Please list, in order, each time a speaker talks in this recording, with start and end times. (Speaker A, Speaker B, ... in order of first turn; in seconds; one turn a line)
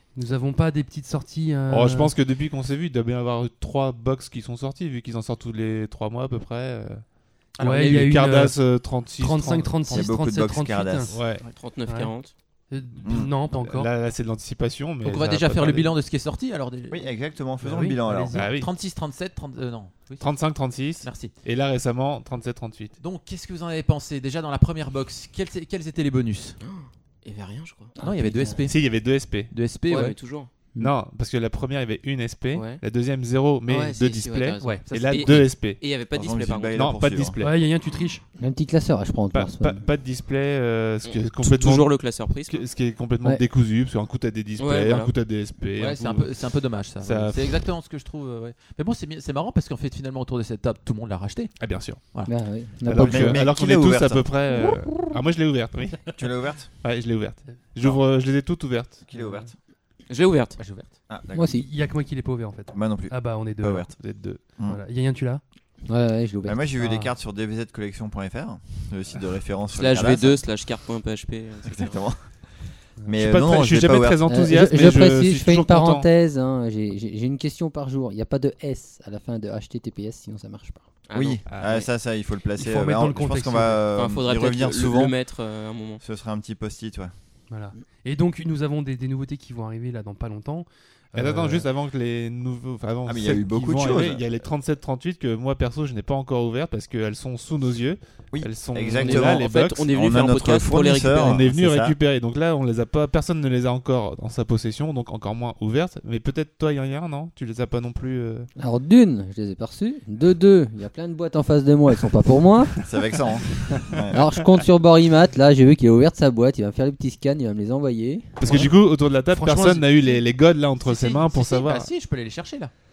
Speaker A: 0.1-2.1
Speaker B: 1.7-10.1
Speaker C: 7.6-8.0
Speaker A: 7.6-11.2
Speaker D: 9.9-11.2
Speaker B: 11.1-11.5
Speaker E: 11.4-12.3
Speaker A: 11.8-13.9
Speaker D: 13.0-13.3
Speaker B: 13.5-16.0
Speaker C: 15.0-17.1
Speaker D: 16.9-18.5
Speaker A: 17.6-18.5
Speaker B: 18.3-18.7
Speaker C: 18.6-21.3
Speaker B: 20.2-22.9
Speaker C: 23.0-26.6
Speaker E: 26.6-27.9
Speaker F: 28.0-28.6
Speaker C: 28.0-30.2
Speaker B: 28.7-29.5
Speaker E: 29.9-30.5
Speaker B: 30.8-35.8
Speaker E: 32.5-32.8
Speaker E: 33.7-36.8
Speaker A: 34.6-35.1
Speaker D: 36.0-37.4
Speaker B: 36.7-37.6
Speaker A: 37.4-38.2
Speaker F: 38.4-39.9
Speaker B: 39.3-46.5
Speaker E: 41.0-42.7
Speaker E: 44.6-45.1
Speaker C: 45.8-52.3
Speaker B: 47.0-47.7
Speaker B: 51.6-52.0
Speaker F: 52.2-53.4
Speaker B: 52.8-56.2
Speaker D: 53.0-54.3
Speaker D: 56.1-56.8
Speaker B: 56.8-59.1
Speaker D: 59.0-59.6
Speaker E: 60.1-60.6
Speaker C: 60.6-60.9
Speaker D: 61.1-61.5
Speaker F: 61.3-61.6
Speaker A: 61.5-65.4
Speaker D: 62.7-64.8
Speaker B: 64.0-64.4
Speaker F: 65.9-66.8
Speaker D: 66.4-70.5
Speaker A: 66.8-67.1
Speaker E: 69.7-72.0
Speaker D: 71.6-74.2
Speaker B: 73.2-76.0
Speaker F: 74.3-80.8
Speaker E: 81.1-81.9
Speaker D: 81.1-85.4
Speaker B: 81.5-81.8
Speaker A: 82.6-83.8
Speaker E: 83.9-86.0
Speaker D: 86.0-87.1
Speaker A: 87.5-91.7
Speaker B: 91.2-99.9
Speaker D: 93.0-94.2
Speaker D: 98.3-102.0
Speaker E: 98.9-101.6
Speaker B: 101.2-108.5
Speaker F: 108.6-112.7
Speaker D: 112.8-114.2
Speaker F: 114.1-118.6
Speaker B: 118.4-121.9
Speaker A: 119.2-119.9
Speaker C: 120.8-122.7